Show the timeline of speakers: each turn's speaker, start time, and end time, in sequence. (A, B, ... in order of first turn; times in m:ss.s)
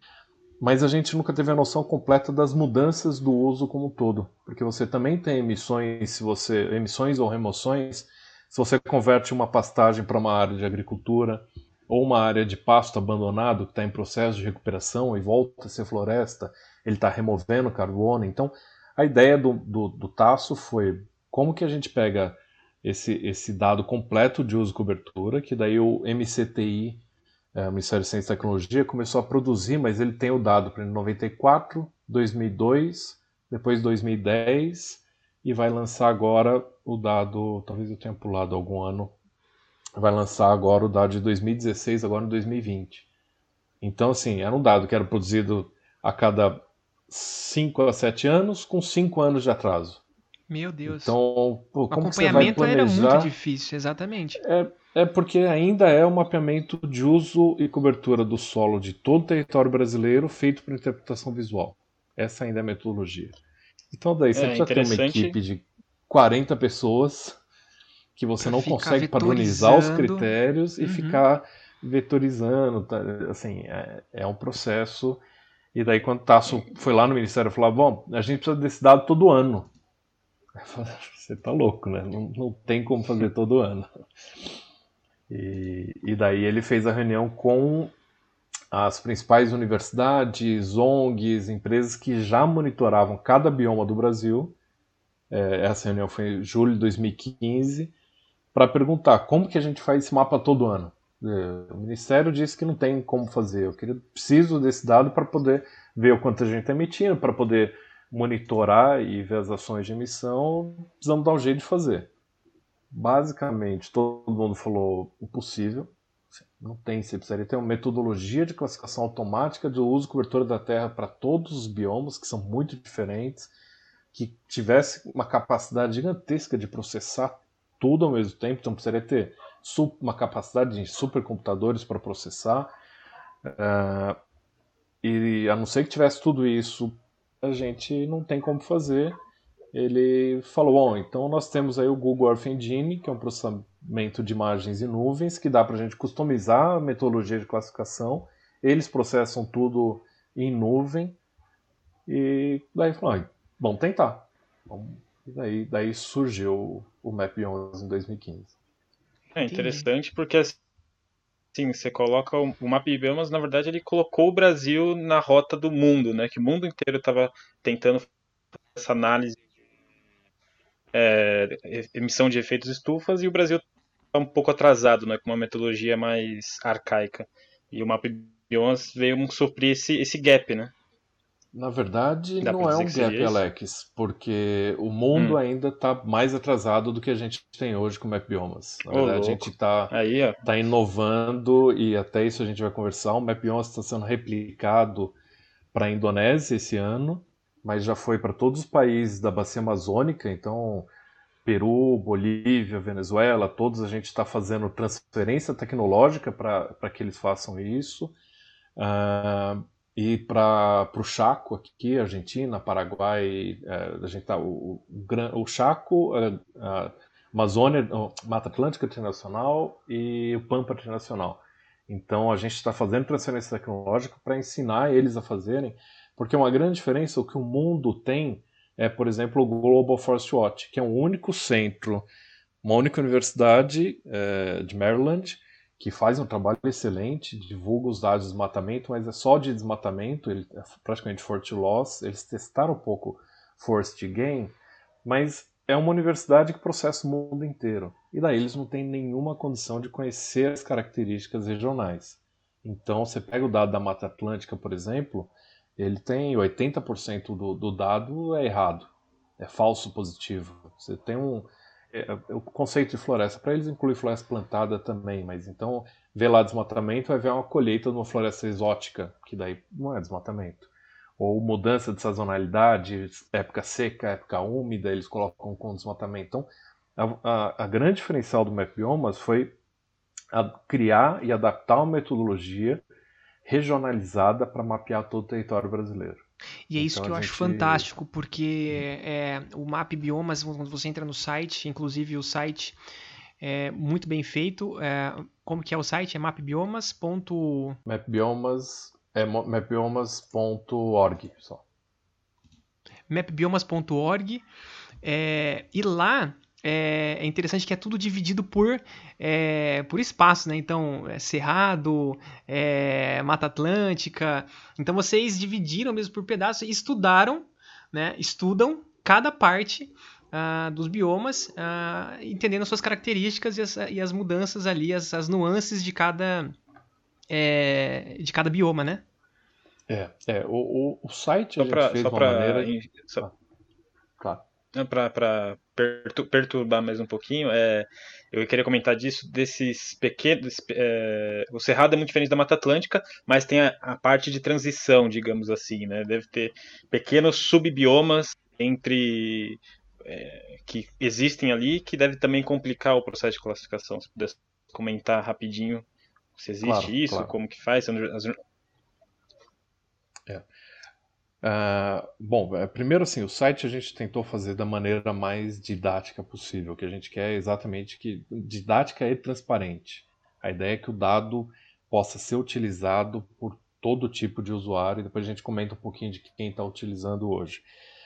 0:00.6-0:27.0 A
0:27.5-0:39.1 A
0:40.0-0:43.1 A
0:43.8-0:50.0 A
0:50.5-0:51.2 B
0:50.8-0:53.3 A
0:51.9-0:54.4 B
0:54.4-1:03.4 A
1:03.9-1:07.4 A
1:04.3-1:05.4 C
1:08.2-1:15.2 A
1:08.4-1:10.3 B
1:10.8-1:11.2 B
1:15.7-1:19.7 A
1:20.6-1:23.9 A
1:25.3-1:27.9 A
1:28.7-1:34.5 A
1:35.3-1:37.9 A
1:38.5-1:52.1 A
1:52.9-1:55.9 A
1:56.6-2:03.5 A
2:04.1-2:12.7 A
2:13.4-2:14.2 A
2:15.0-2:19.2 A
2:19.7-2:31.2 A
2:32.1-2:38.5 A
2:39.3-2:40.6 C
2:39.4-2:39.9 B
2:41.5-2:48.1 C
2:48.7-2:49.4 C
2:50.9-3:00.7 C
3:01.5-3:15.2 A
3:02.4-3:03.4 C
3:08.9-3:10.4 C
3:15.7-3:20.9 A
3:21.4-3:28.1 A
3:28.8-3:52.1 A
3:52.6-4:39.5 A
4:40.3-4:42.8 A
4:43.4-4:46.2 A
4:46.7-4:52.8 B
4:46.8-4:47.9 A
4:53.4-4:57.8 B
4:57.8-5:01.6 A
5:03.1-5:04.4 B
5:05.0-5:26.5 B
5:27.3-5:29.0 B
5:29.9-5:33.3 A
5:31.6-5:33.2 C
5:34.2-5:34.4 A
5:34.7-5:55.8 C
5:56.4-5:58.4 C
5:56.6-5:57.3 A
6:01.4-6:17.6 A